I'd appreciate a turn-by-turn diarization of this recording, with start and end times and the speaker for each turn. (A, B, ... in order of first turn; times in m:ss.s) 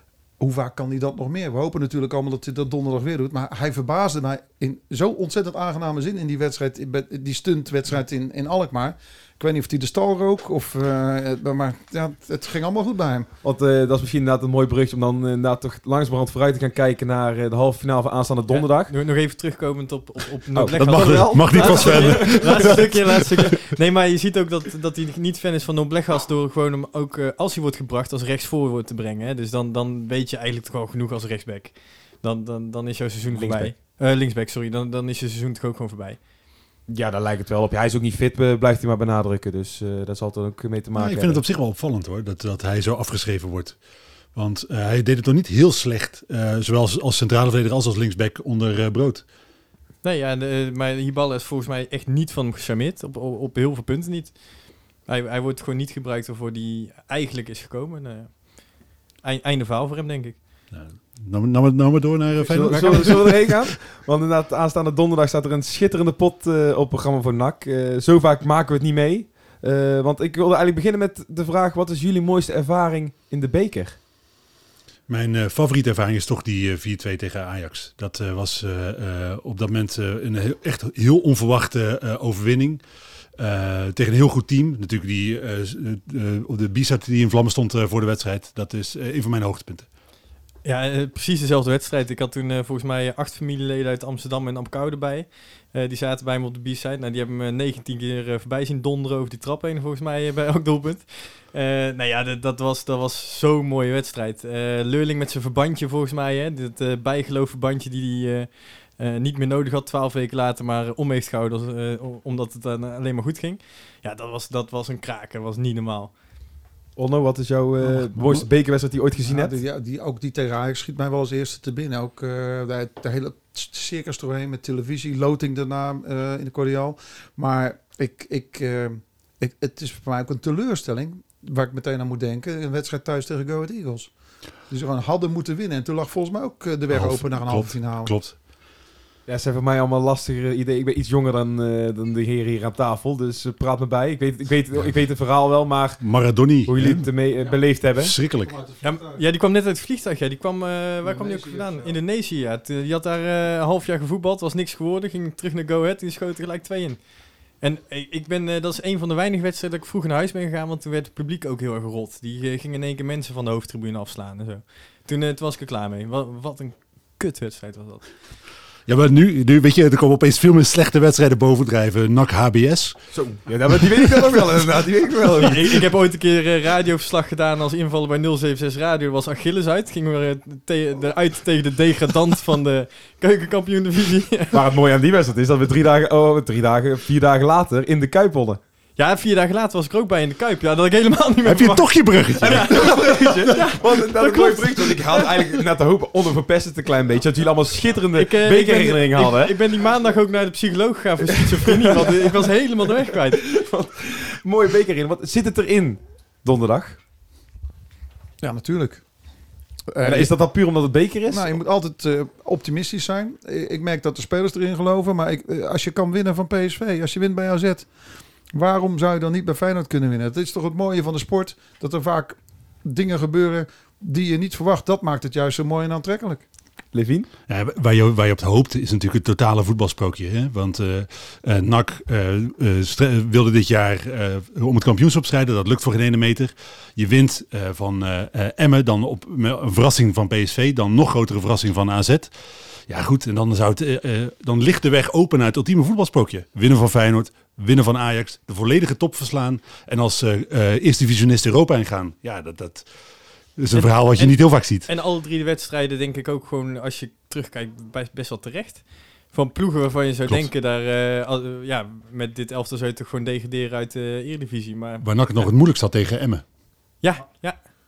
0:00.4-0:13.3 A
0:13.4-0:18.9 B
0:18.5-0:36.2 C
0:20.5-0:23.2 B
0:20.7-0:23.1 D
0:33.3-0:33.7 B
0:36.9-0:41.4 B
0:41.0-0:43.8 D
0:44.3-0:49.2 D
0:50.0-1:00.4 C
1:00.7-1:03.5 D
1:02.5-1:14.0 B
1:02.7-1:03.3 C
1:15.1-1:22.8 D
1:23.4-1:29.8 D
1:30.6-1:56.1 C
1:57.0-1:59.5 B
1:58.2-1:58.4 D
1:59.2-2:14.1 A
2:14.7-2:18.2 A
2:16.9-2:18.4 D
2:19.3-2:28.2 B
2:26.0-2:27.2 D
2:27.9-2:28.6 D
2:28.4-2:29.2 A
2:28.8-2:48.1 C
2:31.0-2:31.9 A
2:48.8-2:53.0 D
2:53.1-2:55.8 B
2:55.4-3:04.6 C
3:04.5-3:08.6 B
3:09.0-3:15.2 C
3:11.4-3:13.4 D
3:12.4-3:19.6 B
3:18.1-3:23.4 C
3:23.3-3:27.0 B
3:28.4-3:29.0 A
3:29.9-3:30.3 A
3:30.0-3:31.6 B
3:31.3-3:37.9 A
3:38.5-3:46.4 A
3:46.9-3:47.3 B
3:47.5-4:02.3 D
4:02.9-4:12.9 D
4:13.6-4:14.9 D
4:13.7-4:25.5 C
4:25.0-4:26.4 D
4:27.0-4:27.6 C